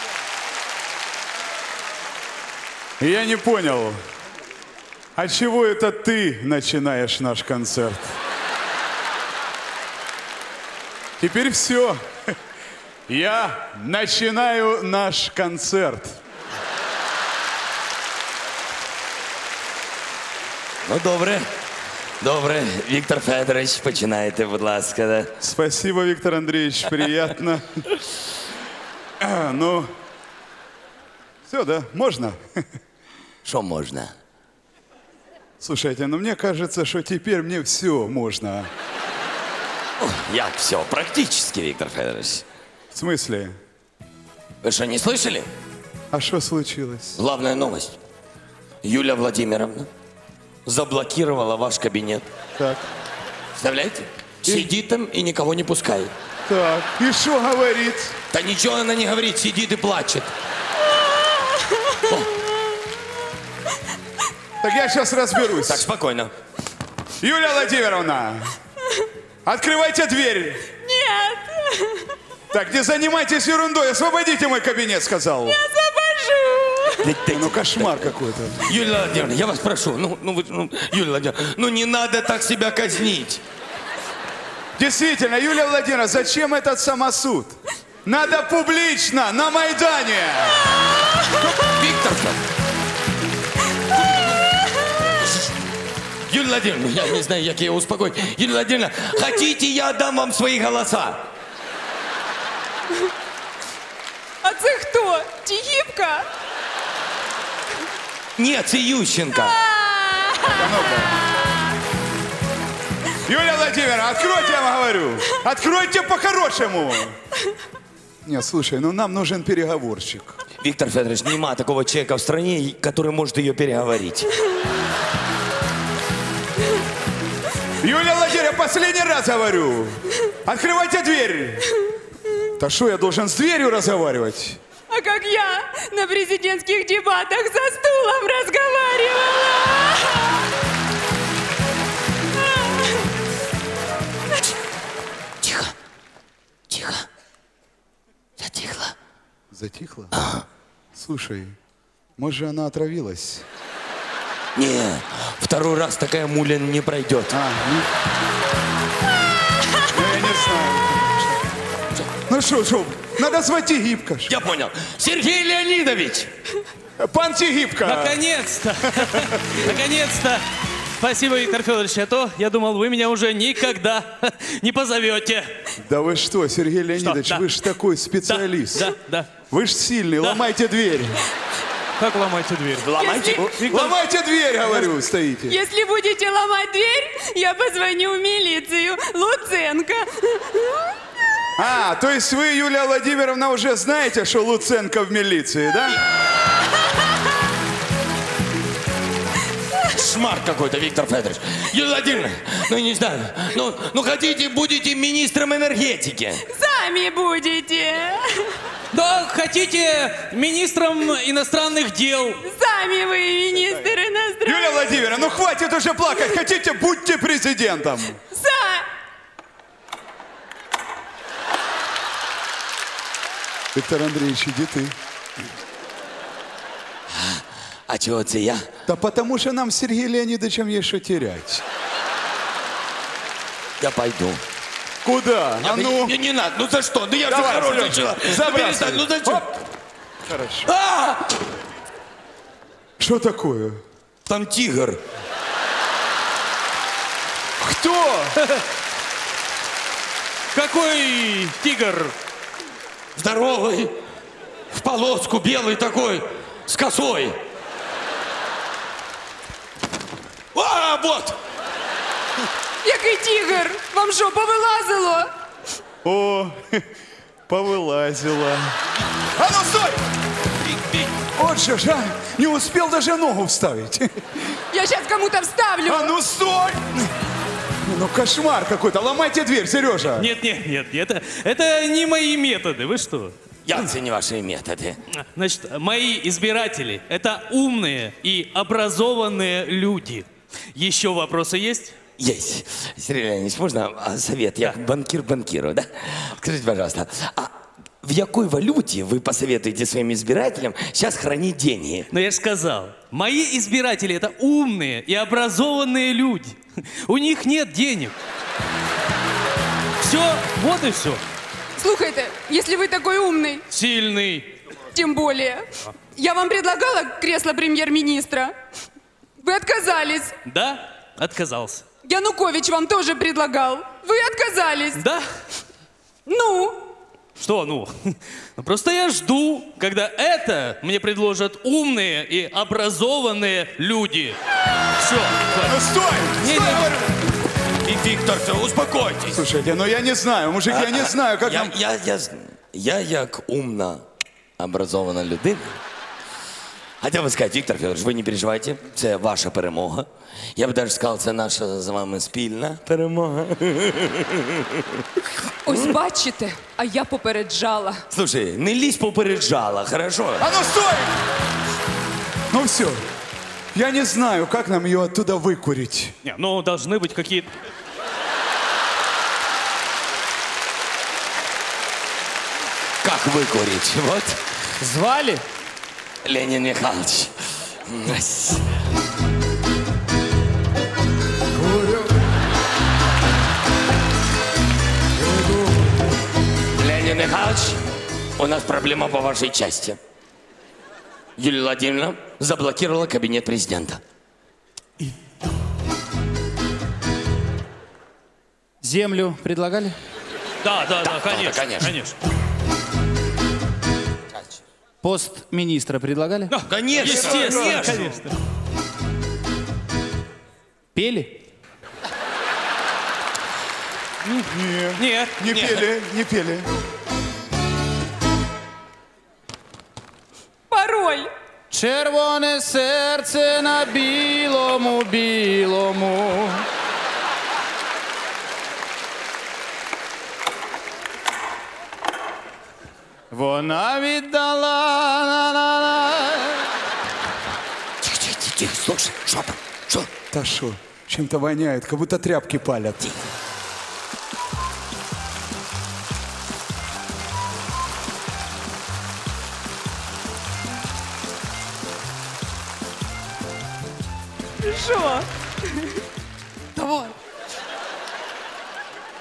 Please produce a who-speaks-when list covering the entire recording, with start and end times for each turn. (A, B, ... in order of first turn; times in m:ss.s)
0:03.0-0:04.0 A
0:05.2-0:08.1 A
0:11.2-0:12.0 A
0:13.1-0:16.2 A
0:20.8-0:21.5 B
0:22.2-0:25.3 B
0:25.4-0:27.8 A
0:29.2-0:29.9 A
0:31.5-0:32.4 A
0:33.4-0:34.1 B
0:35.6-0:38.7 A
0:40.0-0:42.4 B
0:42.9-0:43.5 A
0:44.6-0:45.5 B
0:46.1-0:47.2 A
0:47.2-0:48.0 B
0:48.8-0:49.9 B
0:50.6-0:52.2 B
0:52.6-0:52.8 A
0:53.6-0:56.1 B
0:54.4-0:54.7 A
0:56.5-0:58.2 A
0:58.3-1:00.3 B
1:01.1-1:02.0 C
1:02.0-1:02.3 B
1:04.6-1:05.8 A
1:05.6-1:06.3 B
1:07.2-1:08.5 A
1:09.4-1:10.7 A
1:10.7-1:12.2 C
1:12.5-1:15.6 A
1:15.5-1:17.1 C
1:17.0-1:18.1 B
1:17.3-1:18.7 A
1:18.6-1:23.4 B
1:24.8-1:27.5 A
1:28.0-1:30.7 A
1:31.2-1:32.4 B
1:36.3-1:41.2 B
1:44.4-1:46.3 C
1:48.4-1:49.6 B
1:49.6-1:50.6 C
1:50.4-1:51.2 A
1:51.3-1:51.6 C
1:53.2-1:57.2 A
1:58.2-2:00.4 A
2:00.6-2:04.3 B
2:07.8-2:11.7 A
2:12.6-2:14.6 A
2:14.9-2:20.5 C
2:22.3-2:23.1 C
2:25.4-2:25.7 B
2:26.7-2:27.0 B
2:28.4-2:28.9 B
2:29.5-2:30.1 A
2:30.1-2:30.4 B
2:30.9-2:31.6 A
2:32.2-2:33.4 A
2:34.5-2:37.3 B
2:37.3-2:37.9 A
2:39.9-2:41.4 A
2:42.3-2:44.3 A
2:44.3-2:46.3 B
2:47.0-2:48.2 A
2:47.8-2:50.4 D
2:48.8-2:49.6 A
2:51.0-2:55.5 D
2:55.8-2:58.9 A
2:57.0-2:57.5 D
2:58.2-2:59.3 D
2:59.5-3:01.2 A
3:02.0-3:04.0 D
3:02.8-3:03.6 B
3:03.0-3:03.5 C
3:03.5-3:05.6 A
3:05.5-3:11.0 C
3:11.6-3:16.0 A
3:16.7-3:17.2 C
3:19.8-3:26.4 B
3:26.5-3:28.6 C
3:28.9-3:32.4 D
3:32.4-3:35.1 C
3:34.4-3:38.2 A
3:38.3-3:38.9 C
3:43.7-3:44.9 A
3:47.1-3:48.7 B
3:48.8-3:51.6 A
3:53.8-3:54.4 B
3:55.0-3:56.1 A
3:55.6-3:59.5 B
3:57.3-3:59.5 A
4:00.2-4:00.7 A
4:00.6-4:01.3 B
4:03.0-4:03.8 A
4:04.2-4:05.0 B
4:07.6-4:08.4 A
4:10.5-4:12.1 D
4:13.1-4:13.9 B
4:14.7-4:17.4 B
4:20.5-4:21.4 B
4:22.8-4:25.3 C
4:26.0-4:26.8 A
4:27.5-4:28.7 A
4:29.4-4:30.0 A
4:30.8-4:31.1 B
4:31.3-4:34.3 A
4:34.7-4:36.1 C
4:35.8-4:37.0 A
4:37.8-4:40.3 A
4:40.1-4:43.3 D
4:43.6-4:45.0 B
4:45.1-4:51.9 D
4:52.2-5:02.1 B
5:02.1-5:08.1 D
5:10.0-5:11.2 D
5:11.8-5:13.6 C
5:13.7-5:14.5 D
5:14.8-5:18.5 C
5:19.4-5:20.4 C
5:20.4-5:21.8 D
5:22.0-5:25.0 C
5:25.0-5:25.2 D
5:26.2-5:26.9 C
5:27.4-5:34.4 D
5:35.0-5:35.8 D
5:35.6-5:37.2 A
5:36.4-5:37.0 D
5:37.8-5:39.4 B
5:39.3-5:41.7 A
5:40.7-5:44.0 B
5:44.6-5:45.8 B
5:47.0-5:55.0 B
5:55.6-5:58.0 C
5:58.1-6:00.4 B
6:00.4-6:01.2 A
6:02.5-6:03.0 A
6:03.7-6:06.1 A
6:06.2-6:07.5 D
6:13.0-6:14.4 B
6:14.8-6:15.4 E
6:16.2-6:18.6 B
6:21.6-6:22.1 E
6:25.2-6:25.7 E
6:26.7-6:27.8 B
6:28.4-6:30.0 B
6:31.4-6:34.0 B
6:38.8-6:40.0 E
6:40.6-6:42.2 D
6:41.0-6:41.9 B
6:45.0-6:46.5 E
6:46.5-6:48.3 D
6:46.6-6:48.1 B
6:47.0-6:47.9 A
6:47.9-6:48.3 E
6:50.9-6:51.4 E
6:54.2-6:55.8 D
6:54.4-6:56.7 A
7:00.7-7:01.3 C
7:01.7-7:06.6 E
7:13.3-7:16.7 E
7:18.0-7:20.1 B
7:20.3-7:23.2 A
7:34.6-7:36.0 C
7:36.8-7:37.1 C